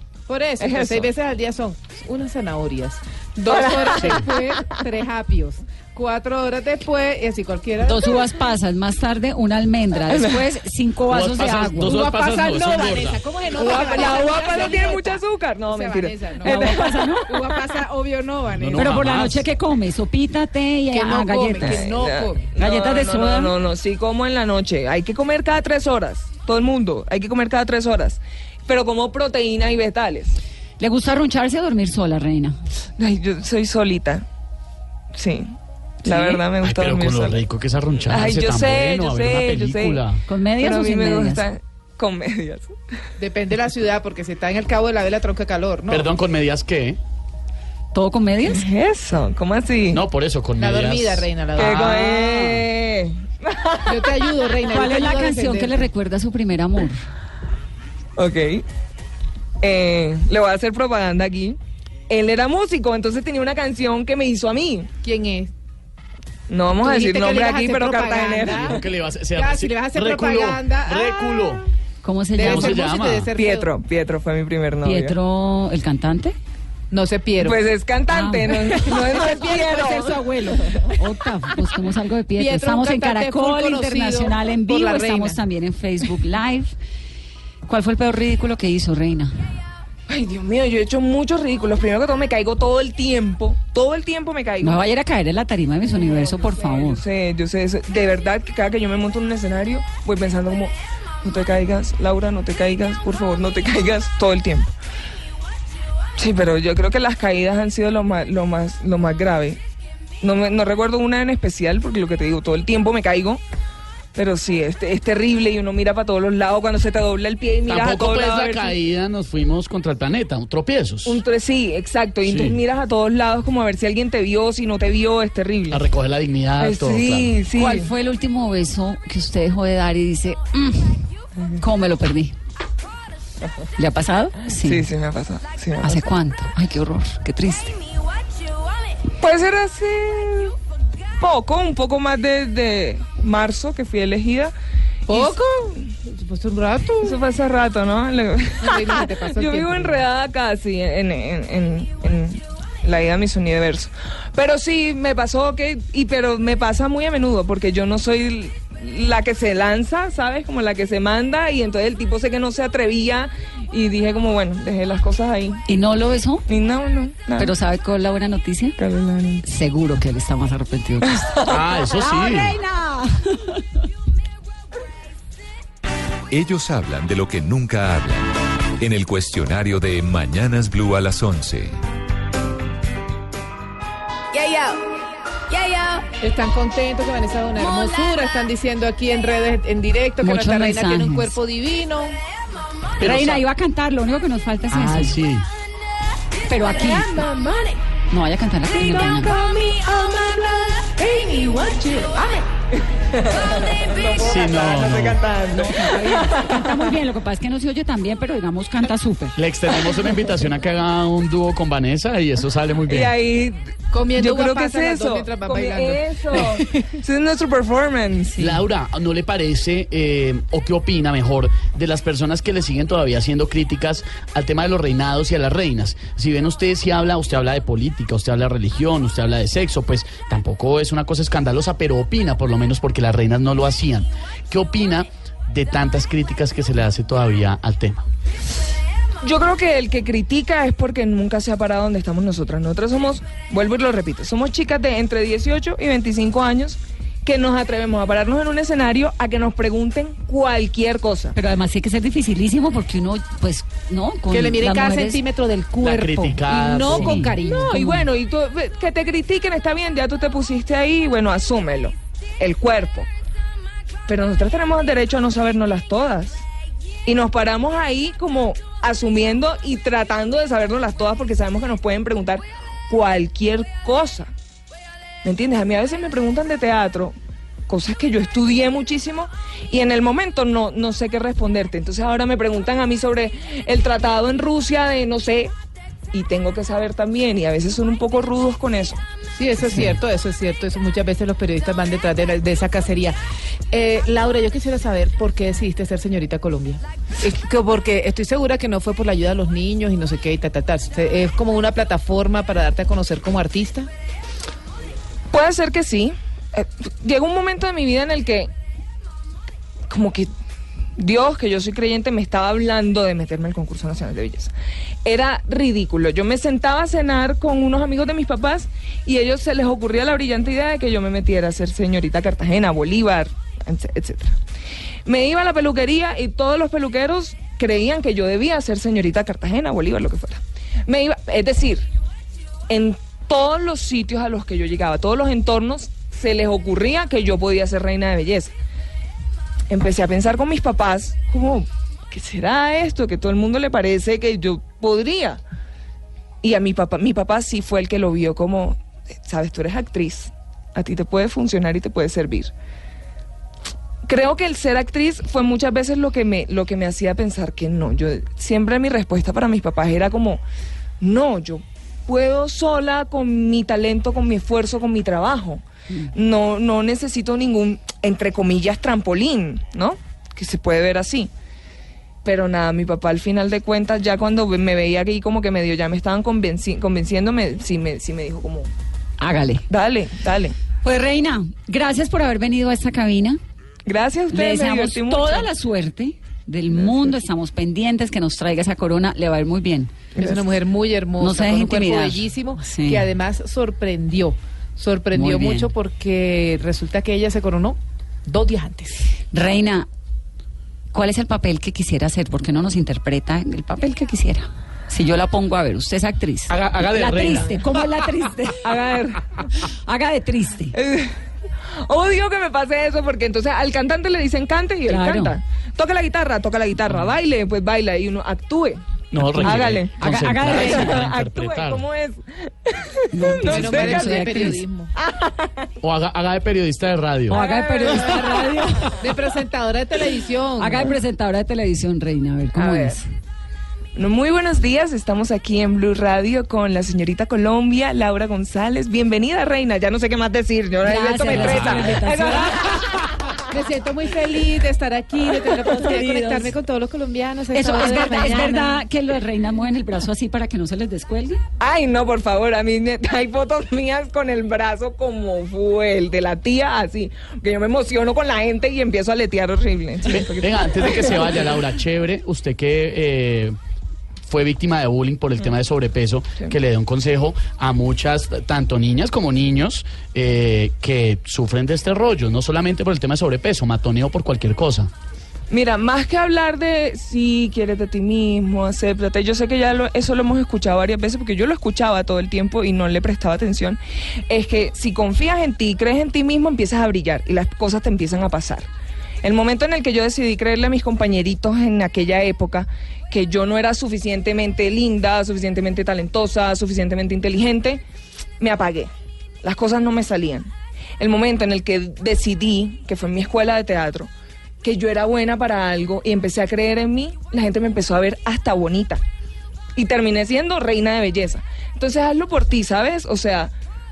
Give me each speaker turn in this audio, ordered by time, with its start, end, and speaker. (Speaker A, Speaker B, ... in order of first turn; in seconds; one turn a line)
Speaker A: 0.3-8.4
Speaker B: 0.6-1.1
Speaker B: 3.5-4.6
Speaker C: 7.8-12.0
Speaker D: 11.1-13.8
Speaker A: 11.8-18.9
Speaker B: 13.5-17.0
Speaker C: 16.4-17.4
Speaker D: 18.5-19.5
Speaker C: 18.8-21.8
Speaker A: 20.9-22.5
Speaker B: 21.6-30.4
Speaker C: 22.6-23.5
Speaker C: 30.8-32.6
Speaker B: 33.0-34.2
Speaker B: 35.1-37.4
Speaker C: 36.1-36.4
Speaker D: 36.6-40.2
Speaker B: 38.0-40.0
Speaker C: 40.3-41.5
Speaker B: 40.6-42.7
Speaker A: 43.2-46.1
Speaker D: 45.9-47.0
Speaker C: 47.9-48.7
Speaker B: 48.5-50.0
Speaker D: 49.9-52.6
Speaker A: 50.6-52.5
Speaker B: 51.6-54.4
Speaker A: 53.9-55.8
Speaker C: 54.7-57.0
Speaker B: 58.2-58.6
Speaker B: 59.6-61.6
Speaker B: 62.1-64.9
Speaker A: 65.0-65.5
Speaker B: 66.5-68.8
Speaker A: 66.8-68.8
Speaker D: 68.5-71.6
Speaker A: 69.3-71.6
Speaker C: 72.0-72.8
Speaker A: 72.4-73.7
Speaker D: 72.4-73.3
Speaker B: 73.3-75.2
Speaker C: 74.8-76.4
Speaker A: 76.9-77.6
Speaker B: 77.4-80.5
Speaker C: 78.1-79.2
Speaker A: 78.9-81.0
Speaker C: 80.9-86.7
Speaker A: 82.4-85.4
Speaker C: 87.7-89.3
Speaker B: 90.1-94.8
Speaker C: 94.6-97.0
Speaker B: 95.9-104.7
Speaker B: 106.2-109.6
Speaker B: 110.2-113.4
Speaker B: 114.2-118.8
Speaker D: 117.7-121.2
Speaker B: 121.0-125.8
Speaker D: 122.2-122.6
Speaker D: 125.7-127.3
Speaker B: 126.6-127.9
Speaker C: 127.6-131.1
Speaker C: 131.6-132.4
Speaker C: 133.8-134.9
Speaker B: 134.6-136.1
Speaker C: 135.8-137.8
Speaker B: 139.2-140.6
Speaker B: 141.2-144.5
Speaker A: 145.1-147.2
Speaker B: 145.1-145.4
Speaker B: 147.0-165.7
Speaker A: 148.6-150.1
Speaker C: 165.7-166.4
Speaker B: 166.5-167.5
Speaker C: 167.4-168.8
Speaker B: 168.8-169.4
Speaker C: 169.4-173.6
Speaker D: 171.5-172.6
Speaker E: 176.3-181.8
Speaker A: 186.2-192.2
Speaker C: 190.2-191.4
Speaker D: 193.0-193.4
Speaker C: 193.0-195.2
Speaker D: 194.7-195.5
Speaker C: 196.5-197.2
Speaker A: 196.7-197.8
Speaker C: 198.1-199.4
Speaker A: 198.8-202.5
Speaker B: 203.0-206.8
Speaker D: 204.2-205.2
Speaker C: 205.5-209.4
Speaker D: 209.4-213.2
Speaker B: 212.9-218.4
Speaker A: 213.9-216.9
Speaker D: 218.4-238.1
Speaker B: 239.2-251.3
Speaker C: 251.3-255.2
Speaker A: 254.3-258.0
Speaker D: 255.8-257.4
Speaker C: 256.9-258.0
Speaker B: 257.4-263.1
Speaker B: 264.1-266.4
Speaker B: 267.1-274.3
Speaker B: 275.2-277.2
Speaker B: 277.7-285.5
Speaker B: 286.1-289.0
Speaker A: 289.4-293.2
Speaker A: 293.7-303.9
Speaker B: 305.3-308.5
Speaker B: 309.9-310.3
Speaker B: 311.0-314.5
Speaker B: 315.1-324.4
Speaker B: 325.1-331.9
Speaker B: 332.7-338.5
Speaker B: 339.7-345.4
Speaker B: 346.4-352.5
Speaker B: 354.1-360.4
Speaker B: 361.0-371.3
Speaker B: 372.2-378.7
Speaker C: 379.2-379.6
Speaker B: 379.7-380.6
Speaker C: 380.8-383.4
Speaker B: 383.9-385.5
Speaker C: 384.3-389.9
Speaker B: 386.8-387.1
Speaker B: 390.1-390.4
Speaker A: 390.2-399.1
Speaker C: 391.2-393.1
Speaker C: 395.1-395.7
Speaker C: 399.3-399.9
Speaker C: 400.9-408.6
Speaker D: 406.5-407.8
Speaker B: 408.6-409.3
Speaker C: 409.9-410.7
Speaker B: 410.7-411.2
Speaker B: 411.7-425.5
Speaker C: 414.9-415.4
Speaker D: 419.1-421.8
Speaker C: 420.0-421.0
Speaker C: 423.1-424.6
Speaker A: 423.4-424.9
Speaker D: 425.8-427.4
Speaker B: 427.3-428.9
Speaker C: 427.3-429.0
Speaker A: 427.8-430.9
Speaker C: 430.6-433.1
Speaker B: 432.6-433.0
Speaker B: 433.9-443.2
Speaker C: 440.9-442.6
Speaker A: 443.5-448.8
Speaker B: 445.5-445.7
Speaker C: 445.8-446.5
Speaker C: 447.5-451.4
Speaker B: 451.6-461.5
Speaker D: 460.1-463.6
Speaker D: 464.3-474.9
Speaker B: 475.5-488.7
Speaker B: 489.2-497.8
Speaker B: 498.4-498.9
Speaker B: 499.4-504.1
Speaker B: 504.6-509.0
Speaker B: 509.8-513.5